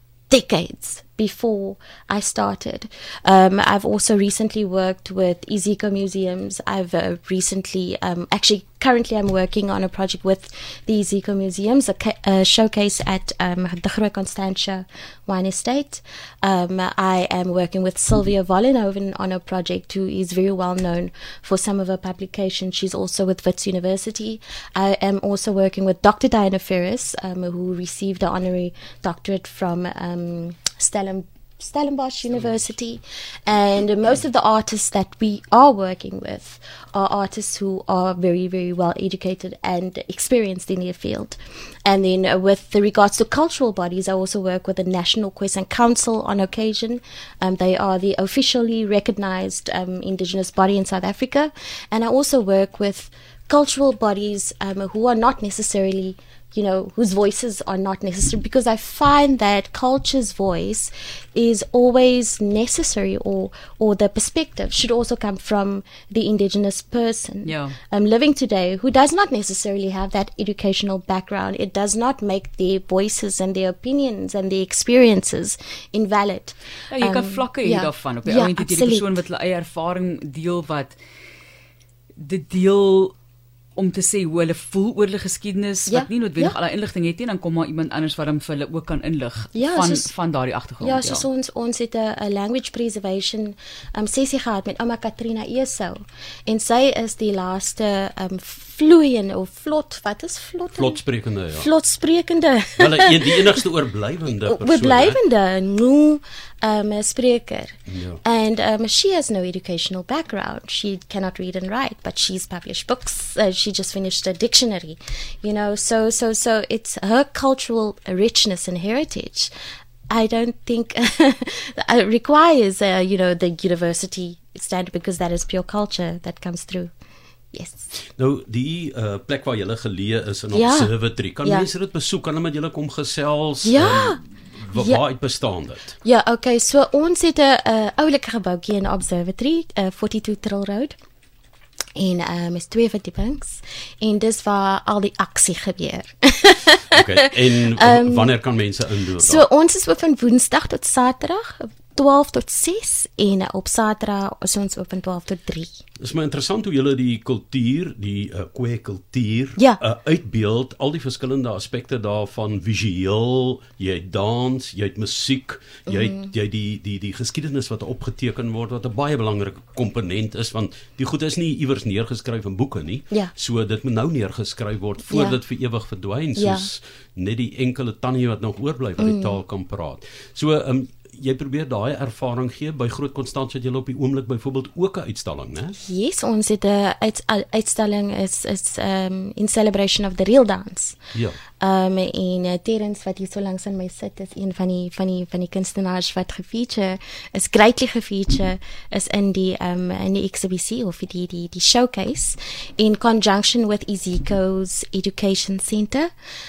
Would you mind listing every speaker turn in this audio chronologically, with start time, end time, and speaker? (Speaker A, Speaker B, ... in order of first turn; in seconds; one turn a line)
Speaker A: 0.3-79.2
Speaker B: 67.5-67.8
Speaker B: 76.9-81.0
Speaker B: 82.2-83.2
Speaker B: 83.8-91.3
Speaker A: 85.9-86.6
Speaker A: 89.5-90.1
Speaker A: 90.8-101.0
Speaker C: 100.7-101.7
Speaker A: 101.5-103.5
Speaker C: 102.8-105.2
Speaker A: 104.4-119.5
Speaker C: 107.9-108.2
Speaker A: 120.1-126.9
Speaker A: 127.5-127.9
Speaker C: 128.2-136.0
Speaker A: 130.5-131.7
Speaker A: 133.6-134.2
Speaker A: 134.7-135.0
Speaker A: 136.0-141.0
Speaker A: 142.0-147.0
Speaker C: 146.9-149.4
Speaker A: 147.8-148.3
Speaker A: 149.2-155.8
Speaker C: 156.0-185.8
Speaker A: 165.9-166.3
Speaker A: 175.1-175.4
Speaker A: 176.4-176.7
Speaker A: 179.0-179.4
Speaker A: 185.8-191.0
Speaker A: 191.6-206.1